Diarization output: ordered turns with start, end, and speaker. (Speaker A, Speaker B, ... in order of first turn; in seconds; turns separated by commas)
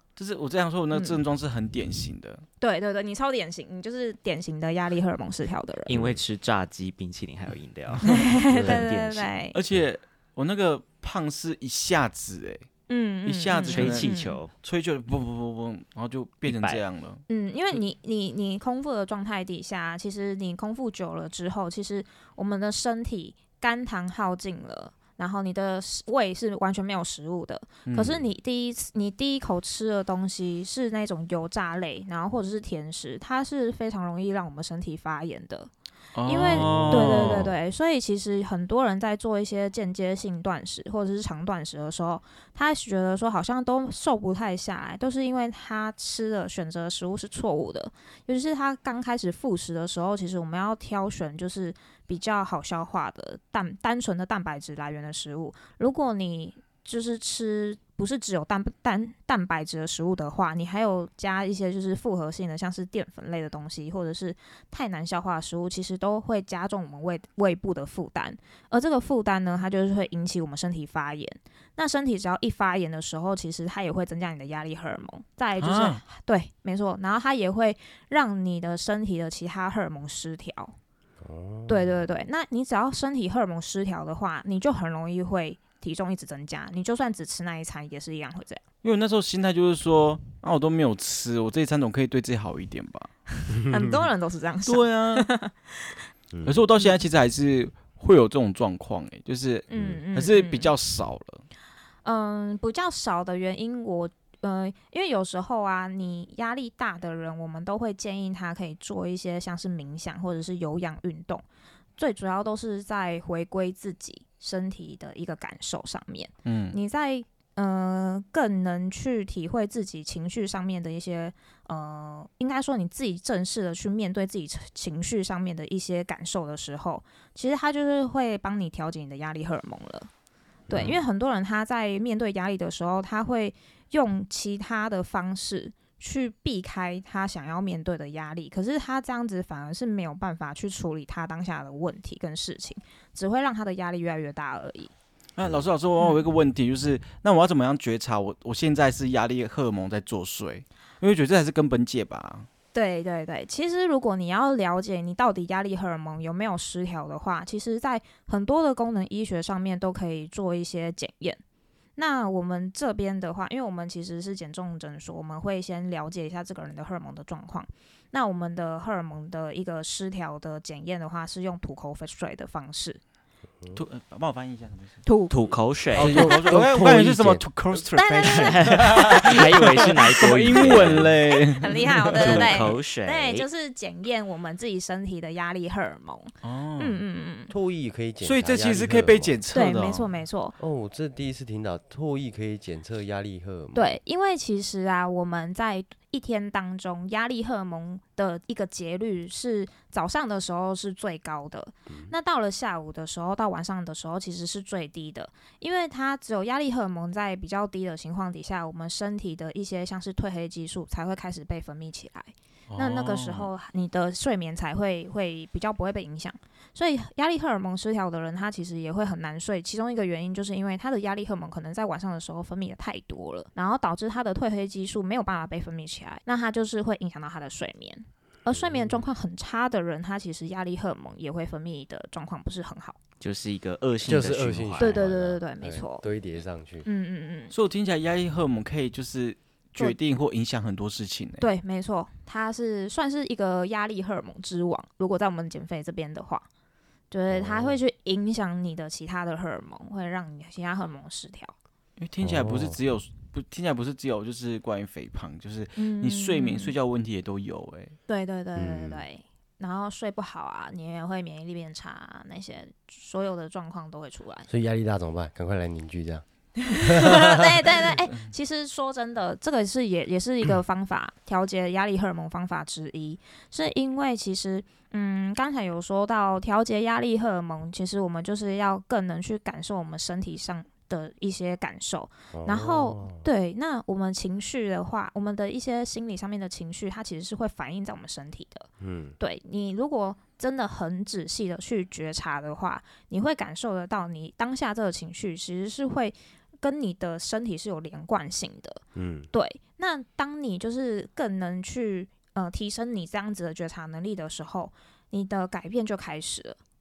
Speaker A: 0.1-2.4, Speaker B: 0.9-1.2, Speaker B: 2.6-6.0, Speaker C: 5.8-9.4, Speaker B: 8.0-9.6, Speaker A: 9.5-12.7, Speaker B: 12.9-14.4, Speaker A: 13.2-14.1, Speaker C: 13.6-14.5, Speaker A: 14.6-17.2, Speaker C: 16.4-16.8, Speaker B: 17.3-35.7, Speaker A: 27.9-28.2, Speaker A: 36.1-37.5, Speaker B: 36.2-80.8, Speaker D: 36.5-37.4, Speaker A: 75.6-76.0, Speaker D: 81.2-82.0, Speaker B: 81.7-88.6, Speaker A: 88.8-93.1, Speaker D: 93.6-94.1, Speaker B: 93.7-96.0, Speaker A: 94.7-95.3, Speaker D: 96.3-96.6, Speaker A: 96.4-101.4, Speaker B: 99.7-100.7, Speaker D: 99.7-100.0, Speaker B: 102.0-111.4, Speaker B: 112.0-130.1, Speaker A: 116.4-116.8, Speaker D: 130.7-131.0, Speaker B: 130.7-144.9, Speaker A: 145.4-152.5, Speaker D: 145.4-145.7, Speaker B: 152.7-161.4, Speaker B: 161.9-173.0, Speaker A: 173.7-175.0, Speaker B: 175.0-175.4, Speaker C: 175.3-176.2, Speaker A: 175.9-182.6, Speaker D: 175.9-177.5, Speaker B: 176.1-176.5, Speaker B: 177.9-179.1, Speaker C: 178.3-181.1, Speaker B: 180.5-187.5, Speaker C: 182.1-183.5, Speaker A: 186.4-187.0, Speaker D: 187.5-189.4, Speaker A: 188.2-190.1, Speaker B: 189.5-190.6, Speaker D: 190.6-194.0, Speaker B: 193.7-233.0, Speaker D: 201.9-202.1, Speaker A: 212.7-213.5, Speaker D: 228.5-229.1, Speaker C: 233.2-235.4, Speaker D: 234.0-236.8, Speaker B: 234.8-236.1, Speaker B: 236.8-237.5, Speaker A: 237.5-241.5, Speaker B: 241.4-246.5, Speaker B: 247.1-251.5, Speaker D: 247.3-247.8, Speaker A: 252.0-257.9, Speaker D: 252.2-252.8, Speaker B: 255.8-256.7, Speaker B: 258.1-264.5, Speaker D: 258.5-259.0, Speaker D: 264.5-267.3, Speaker B: 266.8-288.7, Speaker D: 282.3-283.2, Speaker D: 288.8-289.1, Speaker B: 289.2-306.6, Speaker D: 298.9-299.3